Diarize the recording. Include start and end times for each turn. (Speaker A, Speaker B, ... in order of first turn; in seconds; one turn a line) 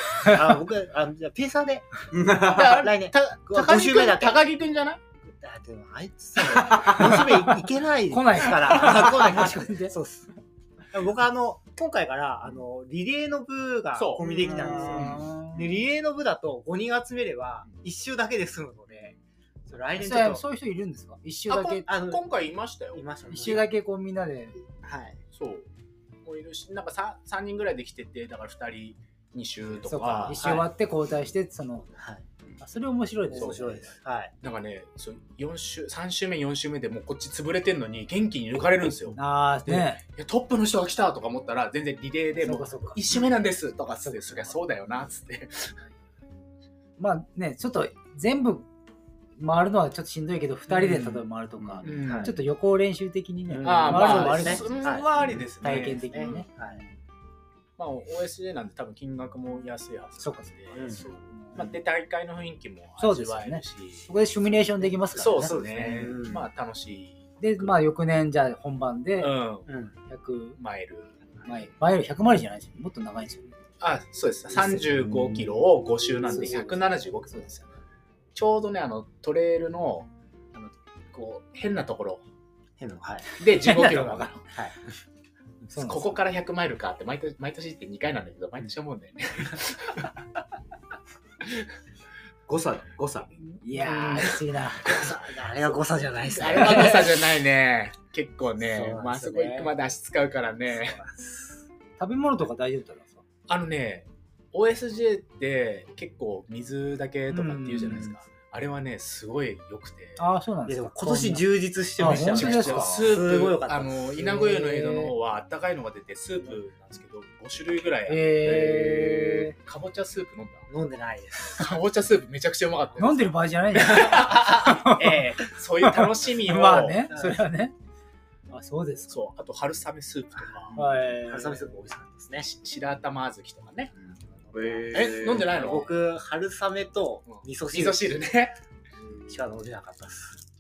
Speaker A: 0.2-4.4
Speaker B: 2.1-2.8
Speaker C: 2.4-5.0
Speaker A: 5.2-10.3
Speaker C: 6.8-7.2
Speaker D: 8.1-9.9
Speaker A: 10.9-20.4
Speaker C: 13.9-15.1
Speaker B: 14.2-15.2
Speaker D: 14.3-15.8
Speaker D: 20.0-21.9
Speaker C: 21.5-23.6
Speaker A: 21.9-22.2
Speaker A: 22.9-23.7
Speaker D: 23.3-24.6
Speaker A: 24.8-25.2
Speaker C: 25.3-25.7
Speaker C: 26.2-30.6
Speaker D: 29.9-31.9
Speaker A: 30.3-30.7
Speaker A: 32.0-32.2
Speaker D: 32.6-33.7
Speaker A: 33.3-34.3
Speaker C: 33.3-45.8
Speaker D: 39.1-40.0
Speaker D: 42.4-43.0
Speaker D: 44.0-44.6
Speaker D: 47.0-48.7
Speaker D: 49.4-55.0
Speaker C: 50.7-51.2
Speaker B: 51.6-51.8
Speaker C: 51.8-52.3
Speaker A: 51.9-52.3
Speaker A: 53.5-55.1
Speaker C: 53.6-56.4
Speaker D: 55.6-56.9
Speaker A: 55.6-56.8
Speaker C: 57.8-64.6
Speaker D: 60.2-60.5
Speaker A: 60.7-61.0
Speaker D: 61.3-61.8
Speaker D: 63.0-66.1
Speaker A: 65.1-66.5
Speaker C: 65.1-67.8
Speaker D: 67.4-69.3
Speaker C: 69.2-69.7
Speaker A: 69.7-69.9
Speaker D: 70.1-70.6
Speaker C: 70.6-71.5
Speaker D: 71.5-73.5
Speaker C: 73.8-77.7
Speaker D: 74.6-74.8
Speaker D: 76.3-77.4
Speaker C: 78.3-82.2
Speaker A: 82.8-83.4
Speaker C: 83.4-84.5
Speaker D: 85.7-86.2
Speaker C: 85.8-90.1
Speaker B: 92.5-93.3
Speaker C: 93.4-95.1
Speaker D: 93.6-94.9
Speaker A: 94.8-97.2
Speaker C: 96.2-101.0
Speaker A: 98.6-99.7
Speaker A: 100.8-101.6
Speaker D: 102.0-103.2
Speaker C: 103.5-110.2
Speaker D: 107.3-108.2
Speaker D: 110.2-113.0
Speaker A: 110.7-115.1
Speaker C: 112.0-120.7
Speaker D: 118.1-119.5
Speaker A: 120.7-121.8
Speaker C: 121.5-127.2
Speaker D: 123.0-127.8
Speaker A: 127.1-127.4
Speaker D: 128.5-129.2
Speaker C: 129.1-130.8
Speaker A: 130.7-132.5
Speaker D: 130.8-131.7
Speaker C: 132.4-133.9
Speaker A: 134.4-138.2
Speaker B: 134.5-135.6
Speaker C: 134.9-135.9
Speaker C: 137.3-138.6
Speaker A: 139.3-140.4